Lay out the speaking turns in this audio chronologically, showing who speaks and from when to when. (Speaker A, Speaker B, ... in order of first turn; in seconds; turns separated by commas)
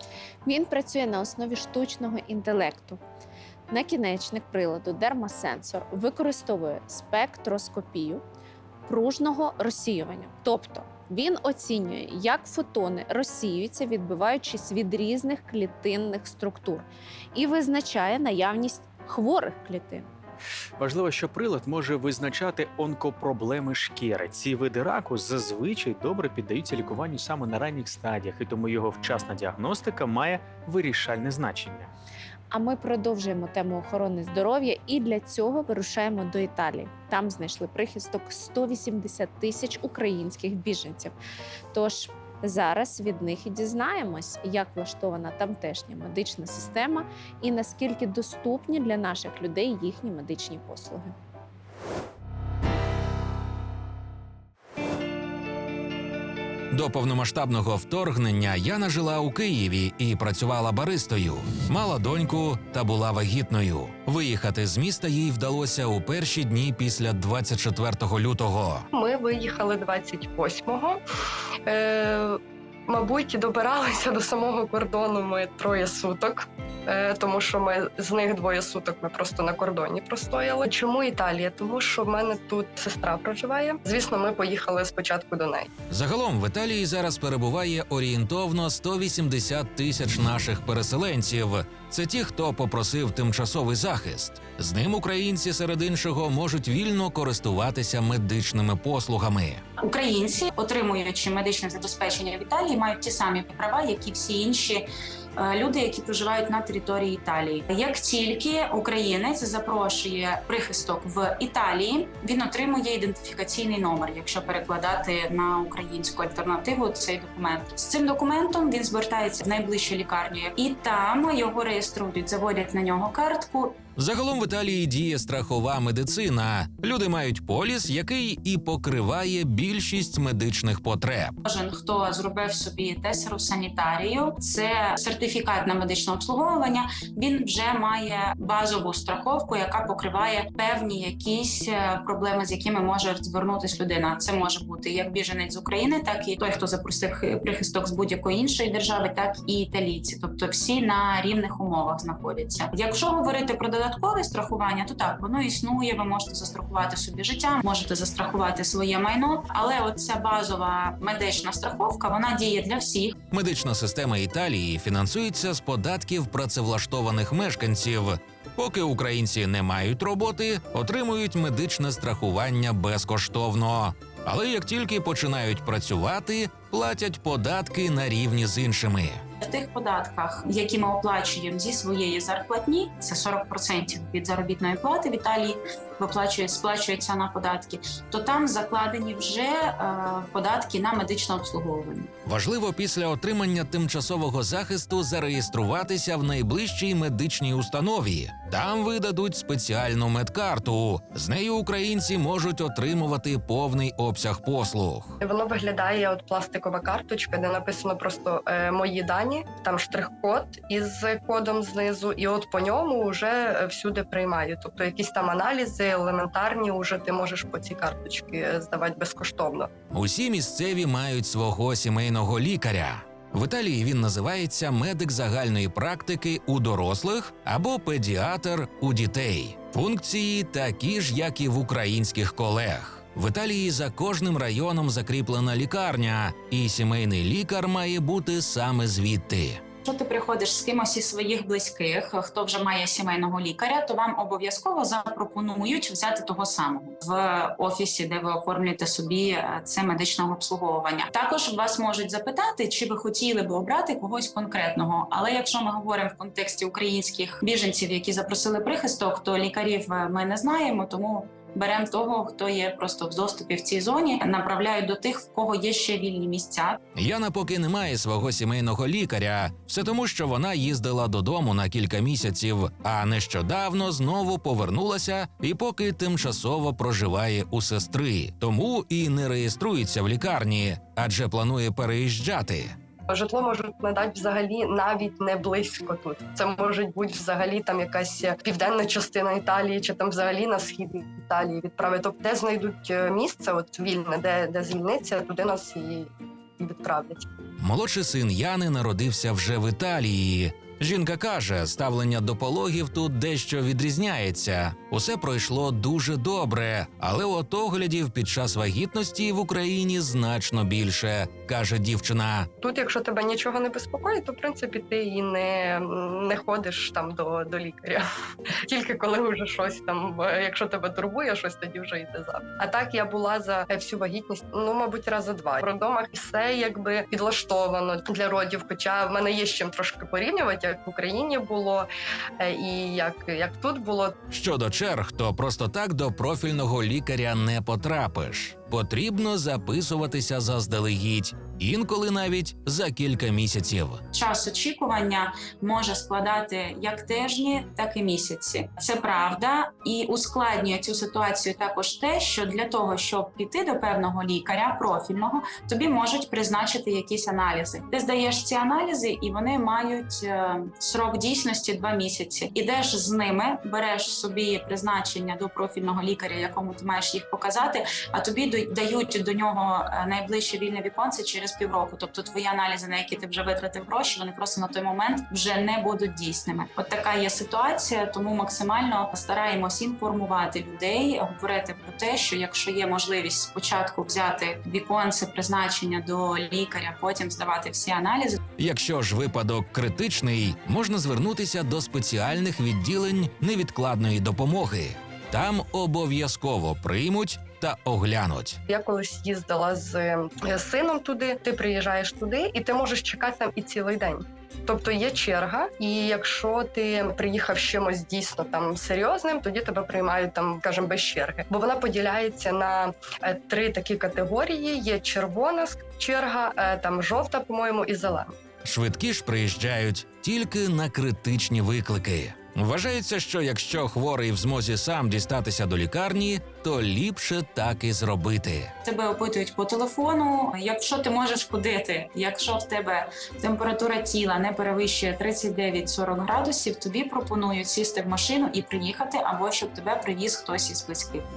Speaker A: 0.4-3.0, Speaker A: 3.7-8.2, Speaker A: 8.9-20.1, Speaker B: 20.8-31.9, Speaker A: 32.5-41.1, Speaker A: 41.7-51.1, Speaker C: 56.7-68.9, Speaker D: 68.9-71.0, Speaker D: 71.7-85.7, Speaker C: 85.9-99.6, Speaker E: 99.8-104.8, Speaker E: 105.4-123.8, Speaker C: 124.0-131.4, Speaker E: 131.4-163.1, Speaker C: 163.3-179.2, Speaker E: 179.4-192.1, Speaker C: 192.2-205.2, Speaker D: 205.2-219.7, Speaker C: 219.9-239.6, Speaker E: 239.8-266.8, Speaker C: 266.9-282.7, Speaker D: 283.1-297.2, Speaker C: 297.6-312.5, Speaker D: 312.6-318.0, Speaker D: 318.7-331.9, Speaker D: 332.4-334.1, Speaker C: 334.3-344.0, Speaker E: 344.1-388.4, Speaker C: 388.6-398.6, Speaker D: 398.7-418.3, Speaker C: 418.6-428.7, Speaker E: 428.8-441.3